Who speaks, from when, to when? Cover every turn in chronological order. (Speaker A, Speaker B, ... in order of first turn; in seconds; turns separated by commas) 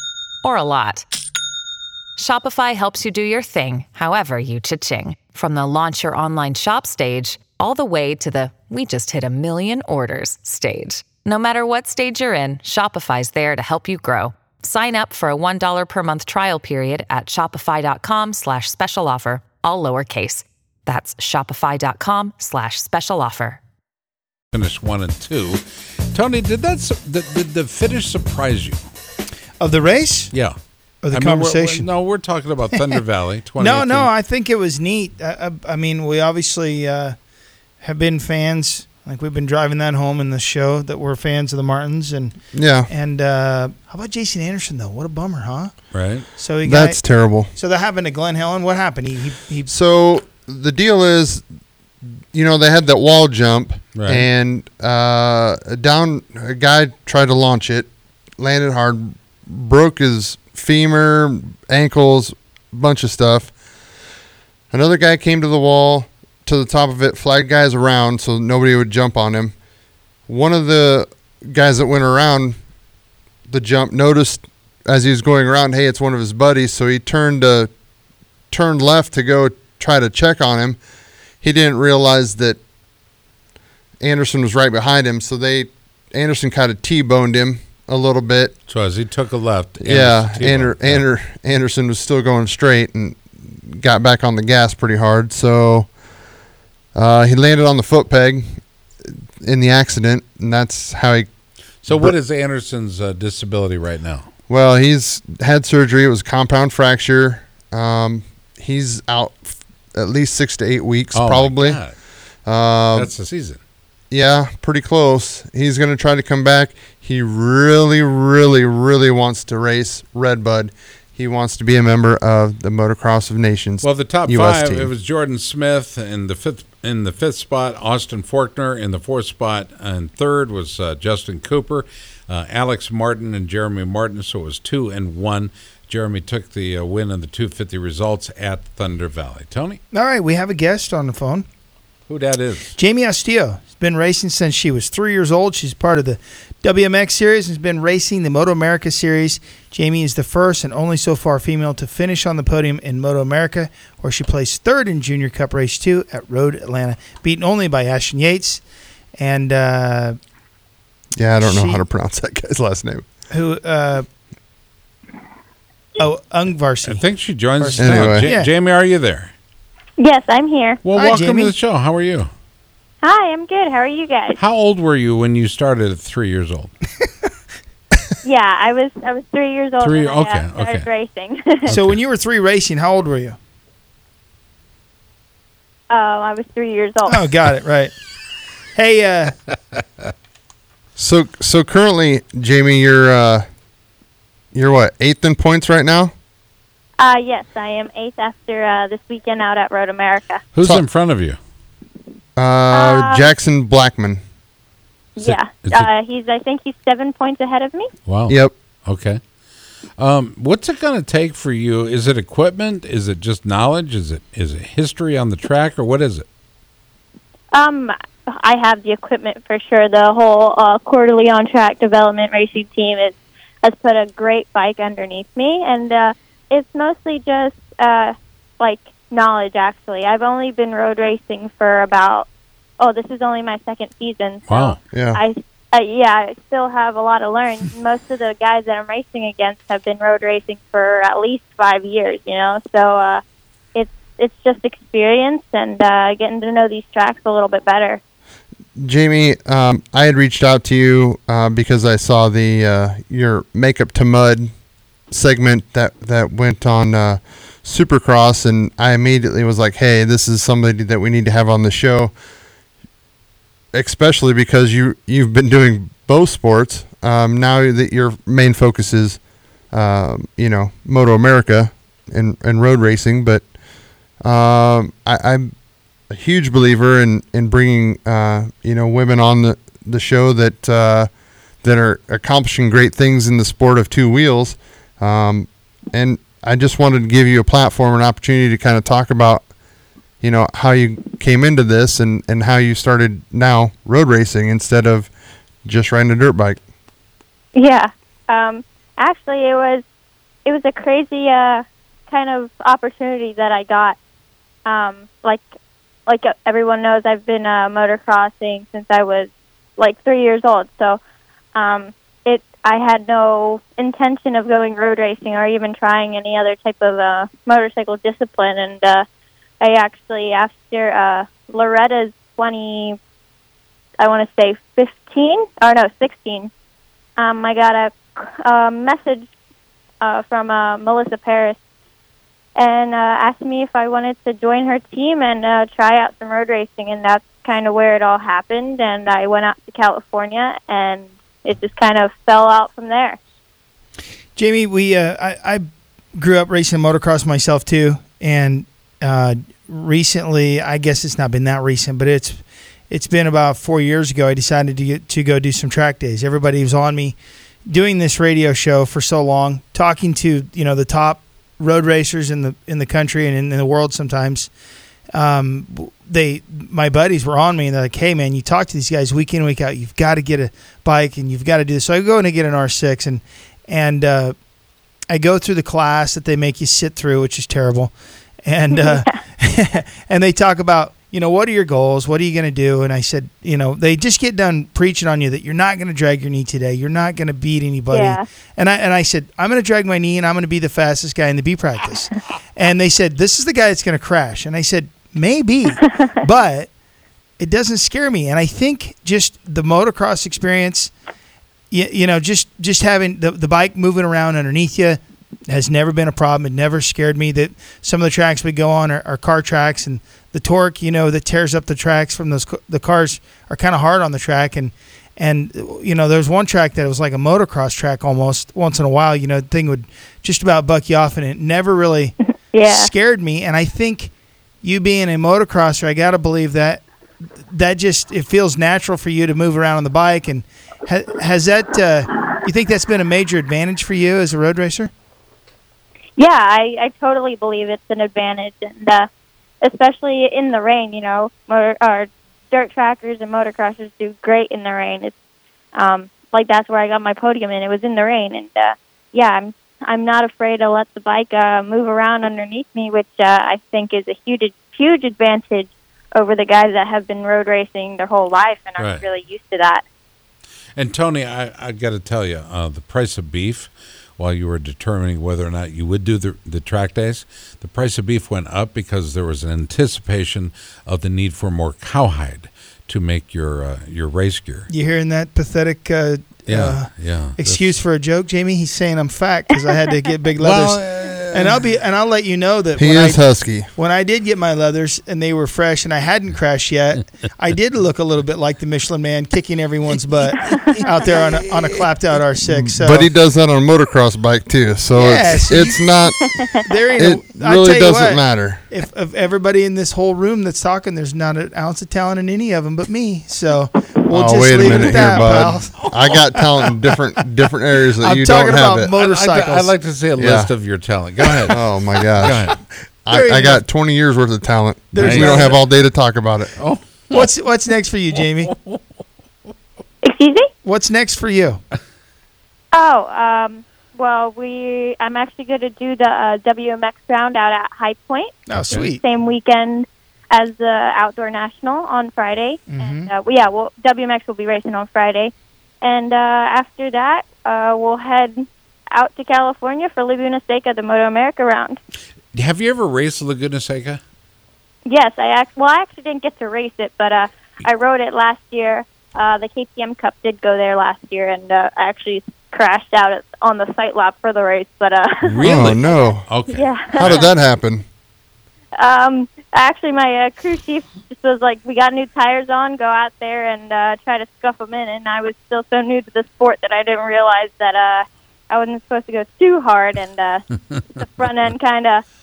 Speaker A: 0.4-1.0, Speaker A: 2.2-23.6, Speaker B: 24.5-28.8, Speaker C: 29.6-30.3, Speaker B: 30.3-30.6, Speaker C: 31.0-31.9, Speaker B: 31.1-34.1, Speaker C: 33.6-37.2, Speaker C: 37.8-49.7, Speaker D: 42.5-42.9, Speaker B: 45.9-46.3, Speaker D: 46.6-47.5, Speaker D: 49.7-51.4, Speaker D: 52.3-63.5, Speaker B: 54.0-54.3, Speaker D: 64.7-69.5, Speaker D: 70.3-72.6, Speaker D: 73.5-77.7, Speaker D: 78.5-80.8, Speaker D: 81.4-82.6, Speaker D: 84.0-88.5, Speaker B: 88.7-91.0, Speaker D: 89.8-95.9, Speaker D: 96.9-101.3, Speaker B: 101.8-104.3, Speaker D: 101.9-102.2, Speaker D: 104.5-111.8, Speaker B: 111.1-111.9, Speaker D: 112.5-113.1, Speaker B: 112.9-113.6, Speaker D: 114.1-124.9, Speaker B: 123.8-139.8, Speaker C: 139.9-141.4, Speaker B: 142.1-142.7, Speaker C: 142.8-160.2, Speaker D: 161.2-163.0, Speaker C: 161.4-161.8, Speaker C: 163.3-164.1, Speaker C: 166.0-167.0, Speaker B: 166.8-169.3, Speaker C: 167.6-168.5, Speaker D: 167.8-168.3, Speaker E: 170.0-170.8, Speaker B: 170.8-172.3, Speaker C: 170.9-171.5, Speaker E: 173.0-174.4, Speaker B: 174.3-176.7, Speaker E: 178.2-181.8, Speaker B: 179.8-180.9, Speaker B: 181.7-182.0, Speaker C: 181.7-183.4, Speaker E: 185.9-187.2, Speaker C: 187.1-187.9, Speaker C: 188.7-189.3, Speaker D: 190.9-193.4, Speaker D: 194.5-196.1, Speaker E: 197.0-200.4, Speaker B: 200.5-201.4, Speaker D: 202.3-204.2, Speaker E: 202.7-203.3, Speaker E: 205.2-207.9, Speaker B: 205.2-205.9, Speaker B: 208.1-209.2, Speaker D: 208.3-208.5, Speaker B: 210.0-216.3, Speaker E: 217.5-232.3, Speaker E: 232.8-243.2, Speaker B: 234.5-234.8, Speaker D: 234.9-235.2, Speaker E: 243.7-248.0, Speaker D: 248.8-254.5, Speaker D: 255.1-262.1, Speaker D: 263.7-269.2, Speaker D: 269.7-273.5, Speaker D: 274.2-275.5, Speaker D: 276.1-281.1, Speaker D: 281.6-289.4, Speaker D: 290.2-295.1, Speaker D: 295.6-296.6, Speaker E: 297.5-299.8, Speaker E: 300.4-304.0, Speaker E: 304.6-305.4, Speaker E: 306.1-311.0, Speaker E: 311.5-319.0, Speaker E: 319.6-323.0, Speaker E: 324.0-326.5, Speaker E: 327.2-329.3, Speaker E: 330.0-331.6, Speaker E: 332.6-343.2, Speaker C: 344.4-364.5, Speaker C: 365.1-374.3, Speaker C: 375.1-396.7, Speaker E: 378.7-379.1, Speaker E: 387.9-388.2, Speaker C: 397.4-400.9, Speaker C: 401.7-424.1, Speaker E: 422.5-422.9, Speaker C: 424.6-426.9, Speaker C: 427.4-434.9, Speaker E: 436.2-439.1, Speaker E: 439.6-445.1, Speaker E: 445.8-459.8, Speaker B: 458.8-459.0, Speaker B: 460.8-474.7, Speaker C: 474.7-493.1, Speaker B: 476.4-477.8, Speaker B: 480.4-481.6, Speaker D: 482.8-483.7, Speaker D: 492.4-496.4, Speaker C: 494.9-495.9, Speaker C: 496.6-505.9, Speaker D: 497.0-498.6, Speaker D: 504.1-508.9, Speaker B: 504.6-505.3, Speaker C: 508.0-509.7, Speaker B: 509.0-511.6, Speaker D: 510.2-510.5, Speaker D: 511.5-516.6, Speaker B: 512.2-512.5, Speaker C: 513.1-513.6, Speaker C: 514.9-515.6, Speaker B: 515.0-515.5, Speaker B: 516.6-517.3, Speaker C: 517.1-518.5, Speaker B: 518.5-518.8, Speaker E: 520.0-520.5, Speaker C: 520.6-521.6, Speaker E: 522.7-538.4, Speaker C: 528.5-529.0, Speaker C: 532.7-533.1, Speaker E: 538.9-541.8, Speaker B: 542.3-544.0, Speaker E: 544.9-557.3, Speaker B: 555.2-557.3, Speaker D: 555.4-556.2, Speaker D: 556.9-557.8, Speaker E: 558.8-570.4, Speaker E: 570.9-572.0